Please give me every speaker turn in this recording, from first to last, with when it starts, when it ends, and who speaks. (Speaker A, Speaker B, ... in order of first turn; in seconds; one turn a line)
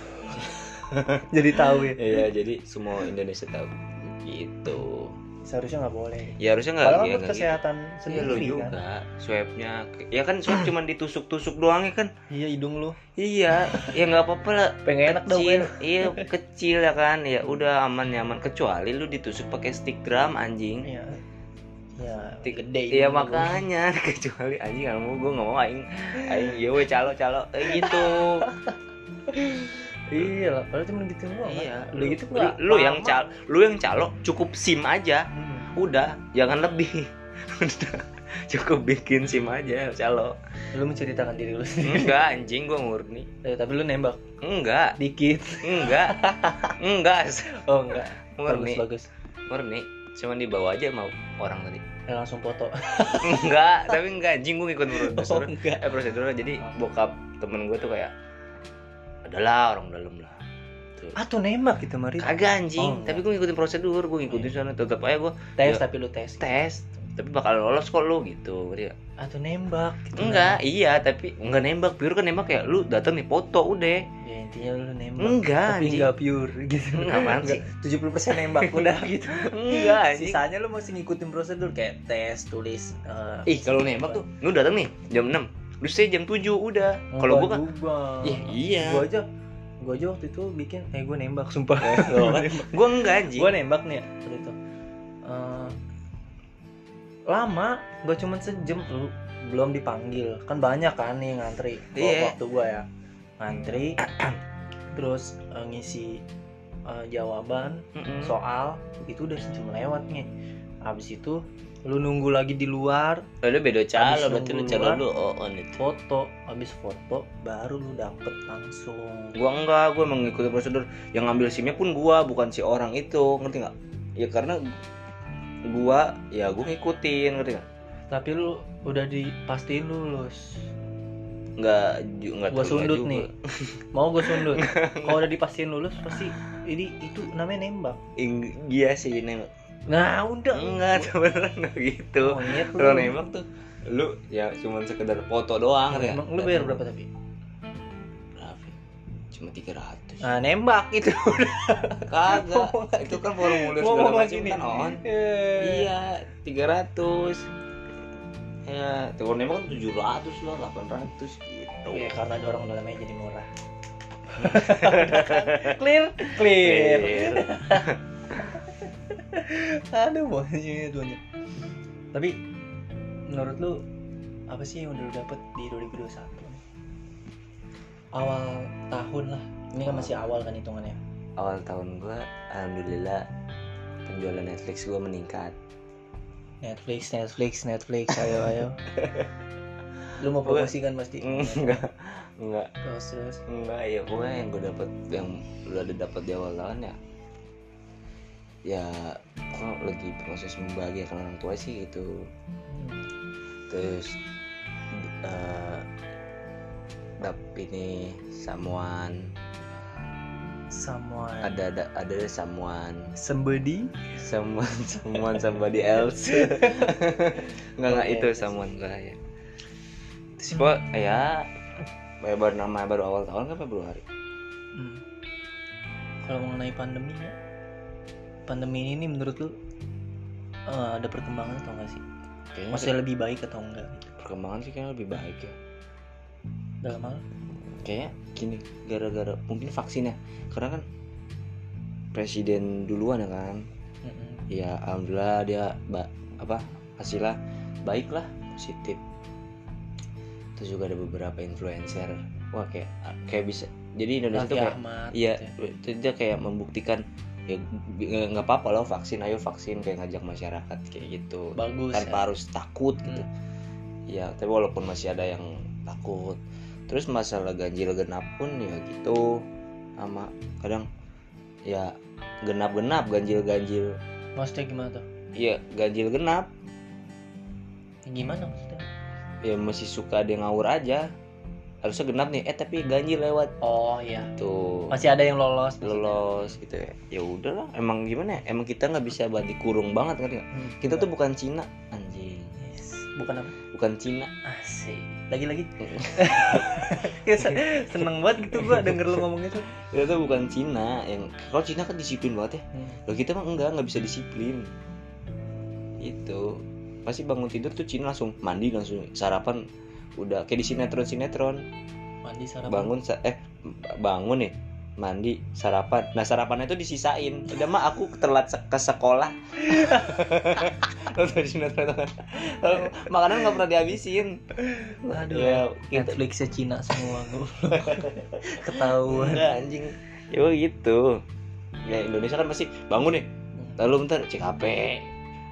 Speaker A: 0.3-5.2
Speaker B: 1.3-2.2
Speaker B: 5.5-8.8
Speaker A: 6.4-12.1
Speaker B: 12.3-13.0
Speaker A: 13.2-20.9
Speaker B: 13.6-13.9
Speaker B: 14.8-16.3
Speaker B: 20.8-21.2
Speaker B: 22.0-23.6
Speaker A: 22.4-28.5
Speaker B: 27.7-28.8
Speaker B: 29.3-33.2
Speaker A: 31.4-40.4
Speaker B: 35.3-35.7
Speaker B: 40.7-42.2
Speaker A: 41.8-43.3
Speaker B: 43.4-44.2
Speaker A: 44.4-45.0
Speaker B: 45.0-46.8
Speaker A: 45.6-46.2
Speaker A: 46.8-48.8
Speaker B: 47.5-49.1
Speaker A: 49.5-51.8
Speaker B: 52.1-54.0
Speaker A: 53.1-58.1
Speaker B: 54.9-55.9
Speaker A: 59.2-60.4
Speaker B: 61.2-63.2
Speaker A: 62.2-65.8
Speaker B: 64.3-64.6
Speaker B: 65.6-66.7
Speaker A: 66.4-69.0
Speaker B: 69.2-70.6
Speaker A: 70.2-74.1
Speaker B: 74.2-84.2
Speaker A: 75.2-76.1
Speaker A: 77.0-77.7
Speaker A: 78.3-80.4
Speaker A: 83.5-87.6
Speaker B: 87.1-89.3
Speaker A: 88.2-89.1
Speaker B: 89.8-94.5
Speaker A: 91.8-93.5
Speaker B: 95.2-95.8
Speaker B: 97.3-102.8
Speaker A: 102.0-102.3
Speaker B: 103.4-104.0
Speaker A: 104.0-104.4
Speaker B: 104.9-106.2
Speaker B: 106.9-110.3
Speaker A: 108.0-108.3
Speaker B: 110.9-113.3
Speaker A: 113.4-115.8
Speaker B: 114.0-115.0
Speaker B: 115.8-119.3
Speaker A: 119.4-124.6
Speaker A: 125.7-127.7
Speaker B: 128.1-130.7
Speaker A: 131.6-135.2
Speaker B: 132.5-133.3
Speaker B: 133.9-138.0
Speaker A: 138.2-139.5
Speaker B: 139.9-141.1
Speaker A: 140.5-146.8
Speaker B: 142.2-143.2
Speaker B: 145.9-147.1
Speaker A: 148.4-148.8
Speaker A: 149.3-150.2
Speaker B: 150.2-155.9
Speaker A: 152.1-155.0
Speaker A: 155.6-157.5
Speaker A: 158.7-162.2
Speaker B: 161.9-163.5
Speaker B: 164.3-171.2
Speaker A: 164.4-168.4
Speaker B: 172.1-172.4
Speaker B: 173.3-173.8
Speaker B: 174.5-176.6
Speaker B: 178.1-181.0
Speaker A: 179.8-180.2
Speaker A: 181.4-183.3
Speaker A: 184.1-185.6
Speaker B: 186.6-188.8
Speaker A: 188.9-189.3
Speaker B: 190.2-191.9
Speaker A: 190.4-192.7
Speaker B: 192.8-193.4
Speaker A: 193.5-197.0
Speaker A: 198.7-202.3
Speaker B: 202.7-203.1
Speaker A: 203.7-204.2
Speaker A: 204.9-205.9
Speaker A: 207.2-209.8
Speaker B: 210.7-211.6
Speaker A: 211.4-213.1
Speaker B: 213.2-214.0
Speaker A: 214.2-219.2
Speaker B: 217.9-218.7
Speaker A: 220.4-221.5
Speaker A: 222.2-224.0
Speaker B: 224.7-225.0
Speaker B: 226.2-227.3
Speaker B: 228.5-229.6
Speaker B: 230.7-232.0
Speaker A: 232.5-232.9
Speaker B: 232.7-234.1
Speaker A: 234.2-235.6
Speaker B: 236.8-237.2
Speaker A: 237.8-240.8
Speaker A: 242.1-243.7
Speaker B: 244.0-244.4
Speaker A: 244.5-249.0
Speaker A: 250.6-263.3
Speaker B: 254.3-255.5
Speaker B: 261.6-262.3
Speaker A: 264.1-269.4
Speaker A: 270.0-270.9
Speaker A: 271.7-274.0
Speaker B: 274.4-275.1
Speaker A: 275.4-276.5
Speaker B: 278.1-278.9
Speaker A: 279.4-281.1
Speaker A: 281.8-283.6
Speaker B: 283.6-284.3
Speaker A: 284.4-285.0
Speaker B: 284.9-286.6
Speaker A: 285.8-292.6
Speaker B: 290.5-291.1
Speaker B: 292.6-293.6
Speaker A: 293.7-294.3
Speaker B: 294.4-299.7
Speaker A: 295.9-297.6
Speaker A: 298.4-299.2
Speaker A: 299.8-304.7
Speaker B: 302.7-303.0
Speaker A: 306.0-309.6
Speaker A: 310.2-311.6
Speaker B: 312.2-312.9
Speaker A: 312.7-324.4
Speaker B: 319.6-320.7
Speaker B: 324.7-329.5
Speaker A: 325.0-326.2
Speaker A: 327.0-331.1
Speaker A: 331.9-333.3
Speaker A: 333.8-335.1